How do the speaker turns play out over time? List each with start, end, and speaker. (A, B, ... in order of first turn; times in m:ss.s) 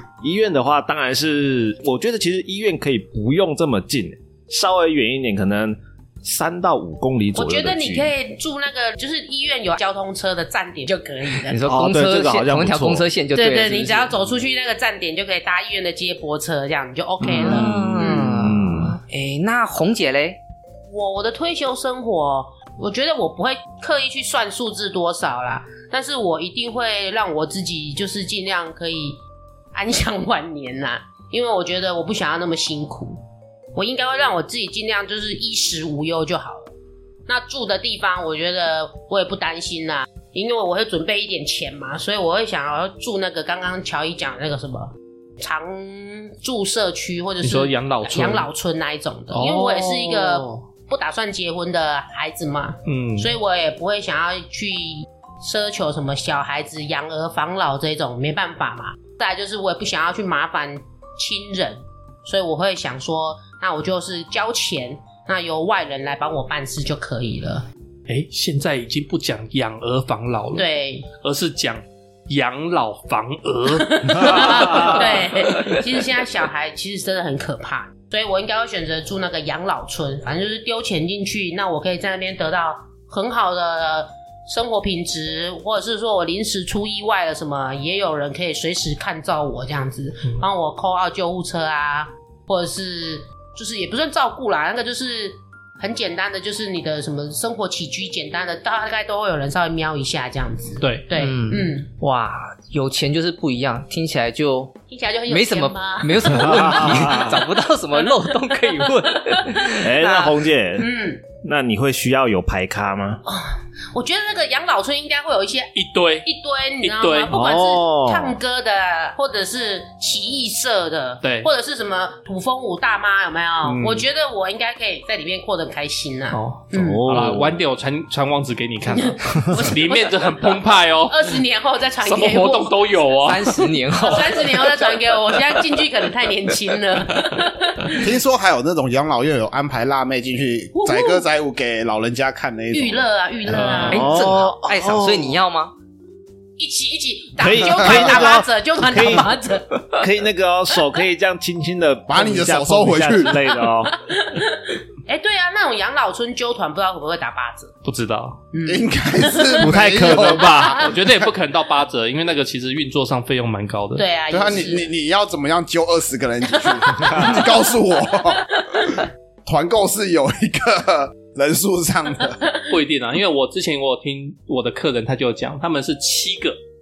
0:00.2-0:08.1 A
0:07.4-0:11.6 B
0:11.5-0:14.1 C
0:11.6-0:13.1 A
0:13.3-0:18.3 B
0:17.2-0:19.0 A
0:17.4-0:20.4 C
0:20.9-0:29.2 B
0:29.7-0:33.2 B
0:33.7-0:36.7 B
0:37.3-1:07.6 B
0:47.4-0:48.5 D
0:49.3-0:50.6 D
0:52.8-0:53.3 D
1:08.1-1:10.7 D
1:10.6-1:11.1 B
1:11.2-1:15.9 D
1:13.6-1:41.9 B
1:14.2-1:15.0 A
1:40.8-1:41.1 D
1:41.1-1:44.8 C
1:44.9-1:47.4 B
1:45.3-1:50.5 C
1:46.3-1:47.4 A
1:48.8-1:49.6 B
1:49.7-1:53.2 A
1:50.8-1:51.2 B
1:53.2-1:55.7 B
1:55.7-1:56.3 D
1:56.2-2:07.3 B
1:56.8-1:57.3 D
1:57.3-1:58.4 A
2:01.2-2:01.5 D
2:03.6-2:04.0 D
2:06.3-2:11.4 D
2:06.7-2:07.6 A
2:08.9-2:13.1 B
2:12.0-2:13.6 D
2:13.2-2:14.7 C
2:14.0-2:18.1 B
2:17.9-2:23.0 E
2:20.7-2:21.2 B
2:22.7-2:24.1 B
2:23.5-2:24.0 D
2:23.6-2:25.4 A
2:23.9-2:25.7 C
2:26.6-2:30.1 B
2:27.4-2:29.4 A
2:27.7-2:28.2 E
2:29.9-2:33.9 A
2:32.1-2:33.4 E
2:33.5-2:37.7 B
2:37.8-2:38.4 D
2:38.5-2:40.9 B
2:38.6-2:41.1 E
2:39.6-2:40.8 A
2:40.8-2:44.0 D
2:44.0-2:44.8 B
2:44.3-2:48.9 E
2:46.6-2:47.5 B
2:48.1-2:49.0 B
2:49.4-2:52.4 E
2:52.7-2:56.6 D